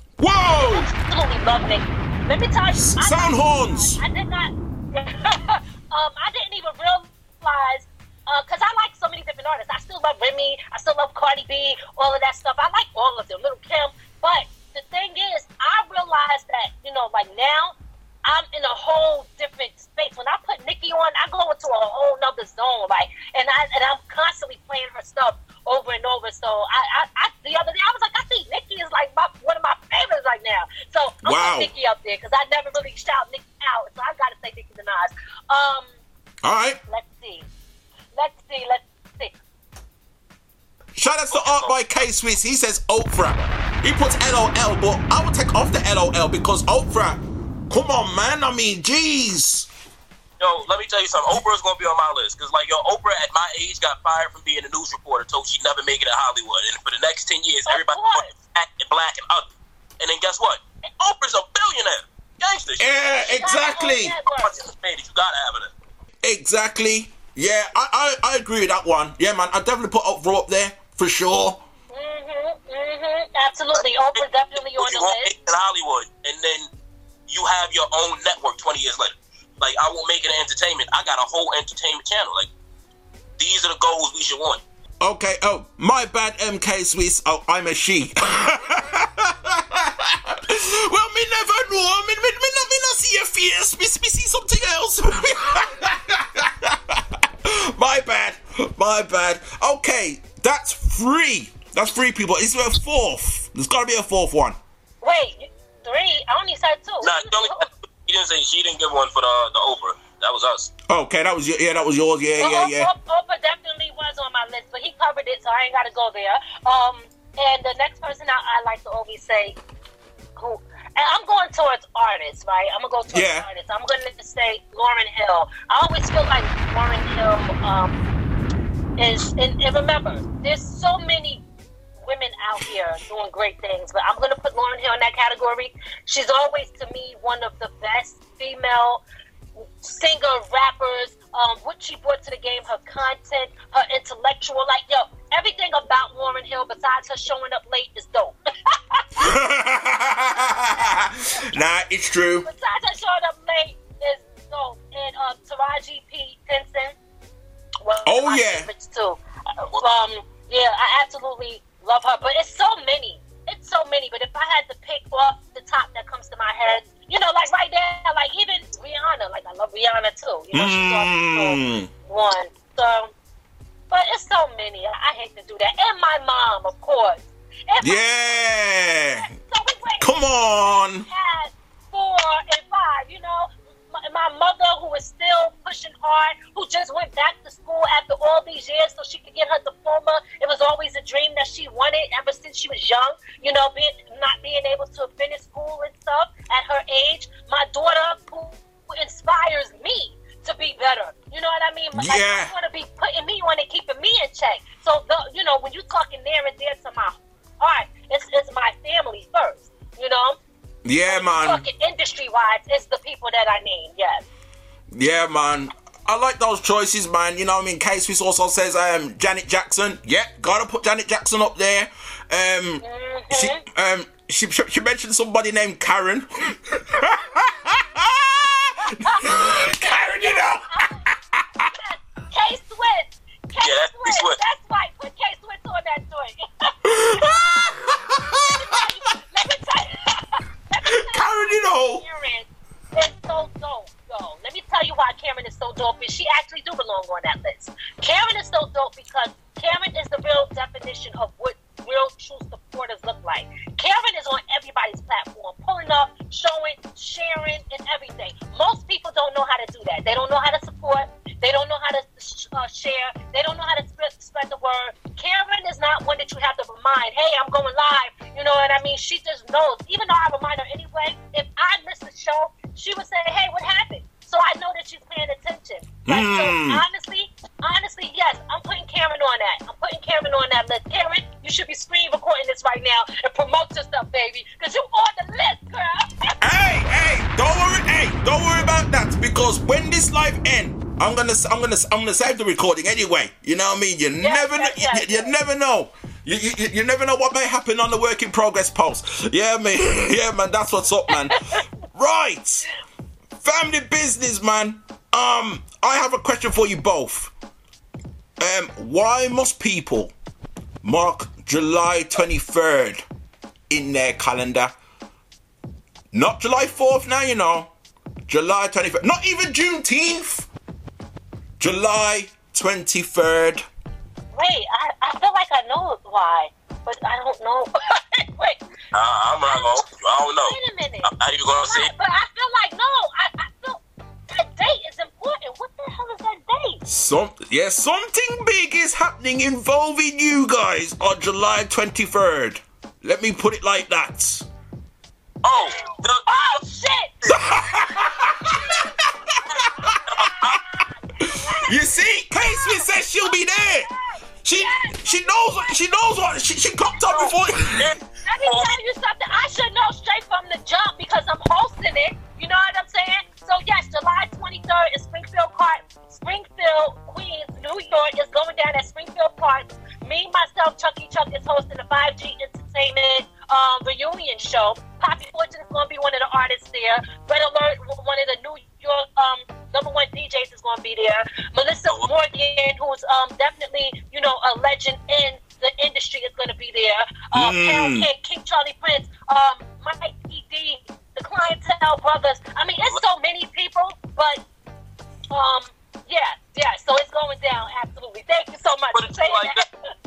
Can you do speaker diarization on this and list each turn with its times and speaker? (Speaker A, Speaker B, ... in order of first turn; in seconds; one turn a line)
Speaker A: 0.2-0.9
Speaker B: 0.6-17.7
Speaker A: 2.7-4.0
Speaker B: 18.2-35.9
Speaker A: 31.2-31.7
Speaker A: 36.4-36.8
Speaker B: 36.9-37.4
Speaker B: 38.1-39.3
Speaker A: 40.9-49.7
Speaker C: 41.3-41.7
Speaker C: 50.4-62.9
Speaker B: 57.7-58.4
Speaker A: 62.8-64.1
Speaker B: 63.2-64.5
Speaker C: 64.3-65.7
Speaker A: 66.2-71.6
Speaker B: 71.9-75.3
Speaker C: 74.7-76.7
Speaker C: 77.3-82.5
Speaker C: 83.4-84.6
Speaker A: 85.0-104.6
Speaker B: 105.0-107.6
Speaker C: 107.0-110.7
Speaker A: 110.9-112.9
Speaker B: 112.4-119.5
Speaker B: 120.4-127.9
Speaker A: 123.1-123.5
Speaker B: 129.0-131.4
Speaker B: 132.0-139.0
Speaker B: 139.6-149.1
Speaker A: 149.2-152.5
Speaker B: 152.4-156.9
Speaker B: 157.8-173.1
Speaker A: 158.0-158.7
Speaker A: 170.5-171.9
Speaker B: 173.9-178.4
Speaker A: 177.8-179.3
Speaker B: 179.2-210.4
Speaker A: 180.0-181.1
Speaker A: 201.9-202.5
Speaker A: 210.8-211.6
Speaker B: 211.1-214.2
Speaker A: 214.9-231.7
Speaker B: 222.8-223.6
Speaker B: 229.0-230.8
Speaker B: 231.7-236.7
Speaker C: 233.6-234.4
Speaker A: 236.9-238.5
Speaker B: 238.5-286.1
Speaker A: 240.8-242.0
Speaker A: 276.1-276.8
Speaker A: 286.4-301.3
Speaker B: 294.2-295.3
Speaker A: 301.9-302.6
Speaker A: 303.4-307.3
Speaker A: 308.4-310.1
Speaker A: 310.8-313.0
Speaker A: 313.7-314.7
Speaker A: 316.1-317.7
Speaker A: 318.3-320.5
Speaker A: 321.6-323.6
Speaker B: 324.3-328.6
Speaker C: 328.9-331.9
Speaker B: 329.4-329.8
Speaker B: 330.4-331.1
Speaker B: 331.6-333.8
Speaker B: 334.3-336.8
Speaker A: 336.9-344.4
Speaker C: 345.4-346.6
Speaker B: 345.8-347.1
Speaker A: 347.3-348.7
Speaker C: 350.2-350.6
Speaker B: 351.2-355.7
Speaker A: 351.7-353.9
Speaker A: 354.4-357.9
Speaker B: 357.0-357.2
Speaker B: 358.3-394.4
Speaker C: 358.4-358.8
Speaker A: 387.3-388.1
Speaker B: 395.3-399.7
Speaker C: 398.9-399.6